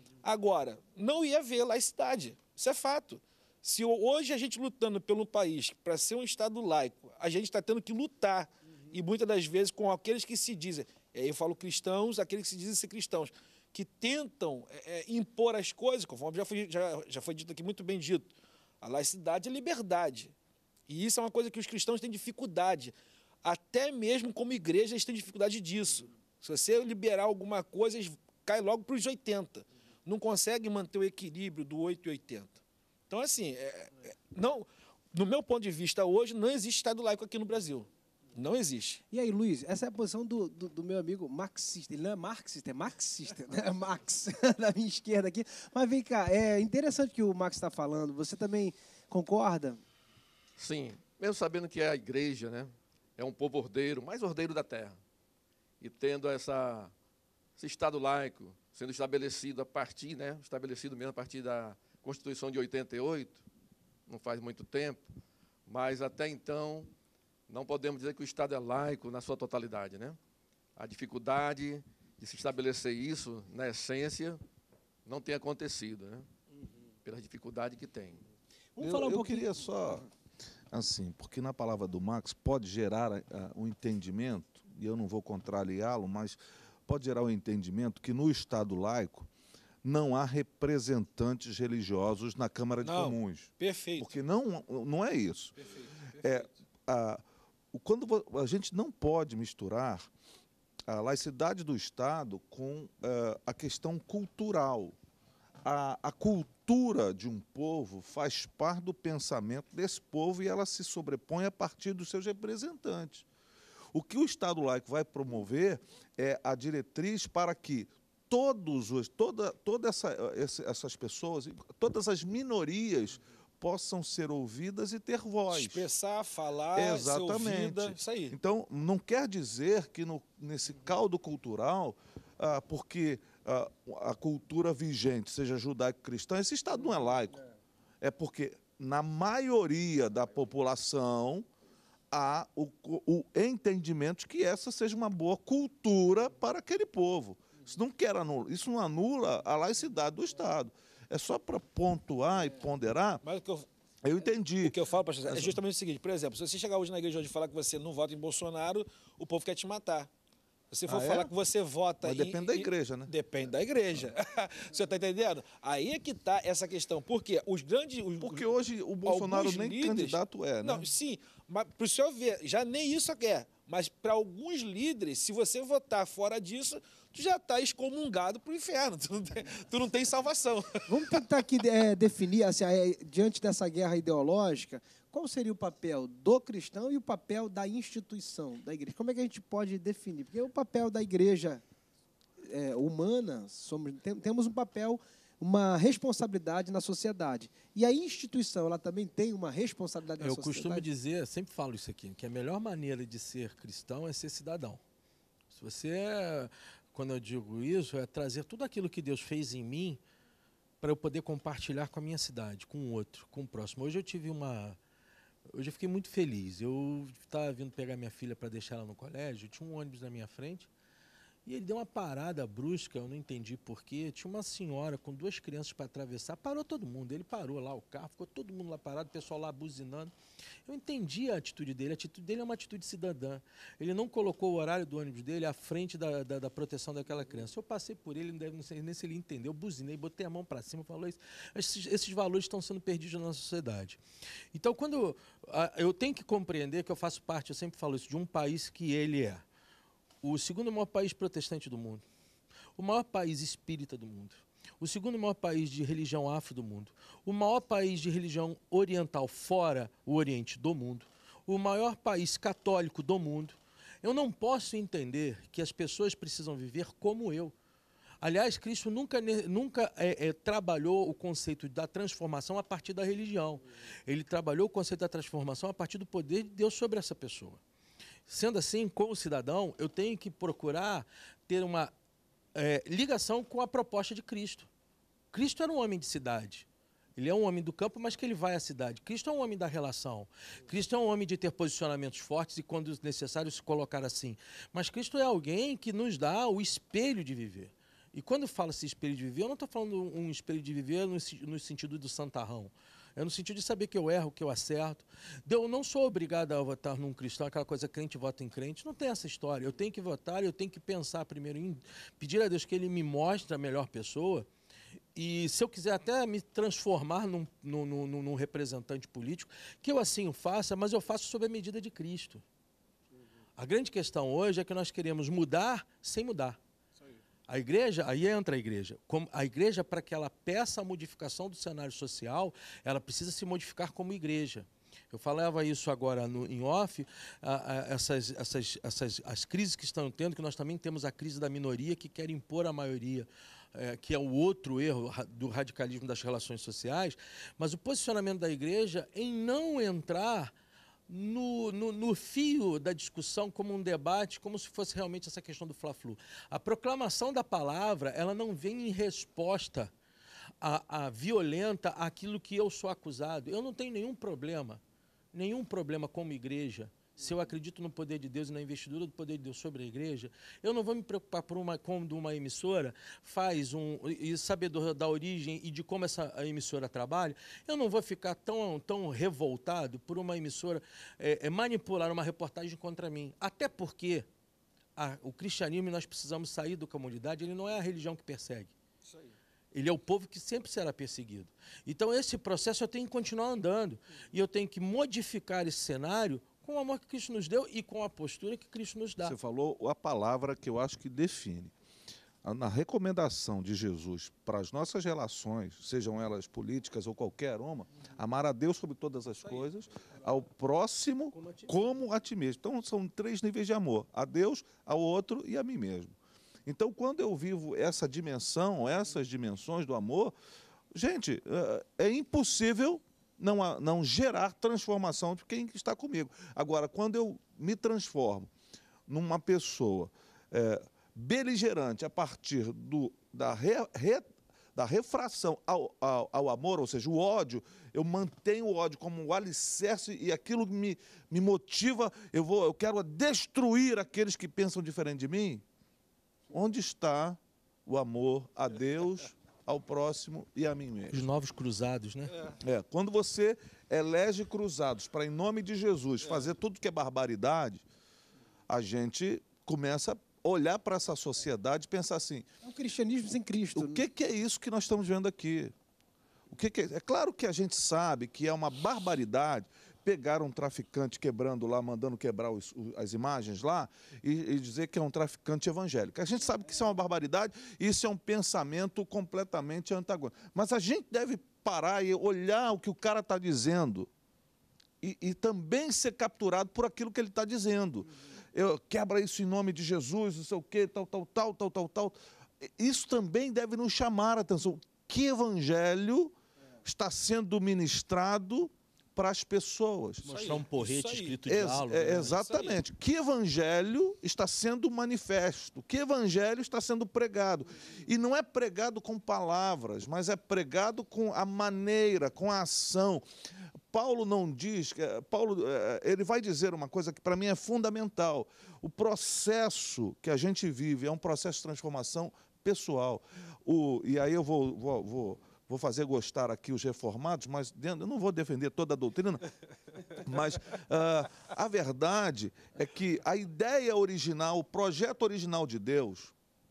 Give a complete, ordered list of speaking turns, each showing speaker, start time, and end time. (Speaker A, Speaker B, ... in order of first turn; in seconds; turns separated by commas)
Speaker A: 0.2-20.3, Speaker A: 20.9-39.0, Speaker B: 39.1-49.8, Speaker C: 50.6-55.0, Speaker C: 55.8-56.9, Speaker C: 57.6-63.4, Speaker C: 64.1-65.0, Speaker C: 65.7-66.9, Speaker C: 67.5-70.2, Speaker C: 70.8-74.4, Speaker C: 75.1-76.3, Speaker C: 77.0-78.2, Speaker B: 78.8-80.0, Speaker D: 78.8-80.0, Speaker D: 80.7-89.3, Speaker D: 89.8-95.7, Speaker A: 92.8-94.2, Speaker A: 95.6-96.5, Speaker D: 96.2-100.1, Speaker D: 100.9-105.0, Speaker D: 105.6-113.3, Speaker D: 113.9-125.9, Speaker A: 125.5-128.4, Speaker D: 126.8-137.4, Speaker D: 138.0-141.5, Speaker D: 142.1-153.2, Speaker A: 153.2-153.7, Speaker D: 154.0-155.6, Speaker A: 154.6-160.1, Speaker A: 160.7-168.5, Speaker D: 160.9-161.3, Speaker D: 162.0-163.1, Speaker D: 168.2-170.9, Speaker A: 169.1-181.2, Speaker B: 180.9-191.6, Speaker B: 192.4-200.9, Speaker E: 200.2-204.8, Speaker E: 205.5-210.0, Speaker E: 210.8-214.8, Speaker E: 215.5-220.7, Speaker E: 221.5-230.1, Speaker E: 230.7-244.0, Speaker E: 244.5-249.4, Speaker E: 250.2-252.0, Speaker E: 252.8-267.5, Speaker E: 268.2-277.6, Speaker E: 278.3-281.9, Speaker E: 282.6-284.7, Speaker E: 285.3-314.5, Speaker E: 315.1-322.4, Speaker E: 323.6-326.6, Speaker E: 327.5-350.5, Speaker E: 351.1-359.9, Speaker E: 360.6-364.8, Speaker E: 365.3-384.3, Speaker E: 385.0-388.7, Speaker E: 389.7-399.4, Speaker D: 399.2-401.7, Speaker D: 402.4-416.1, Speaker E: 411.3-411.9, Speaker D: 416.7-420.4, Speaker D: 420.9-428.5, Speaker D: 429.1-445.6, Speaker D: 446.5-451.3, Speaker E: 451.1-452.4, Speaker D: 452.6-457.9, Speaker D: 458.7-462.5, Speaker B: 462.6-464.0, Speaker D: 463.7-465.7, Speaker D: 466.5-484.1, Speaker D: 485.0-500.3, Speaker A: 500.2-501.5, Speaker E: 500.2-502.4, Speaker D: 501.5-513.2, Speaker A: 502.2-502.8, Speaker D: 513.9-529.4, Speaker D: 530.1-536.3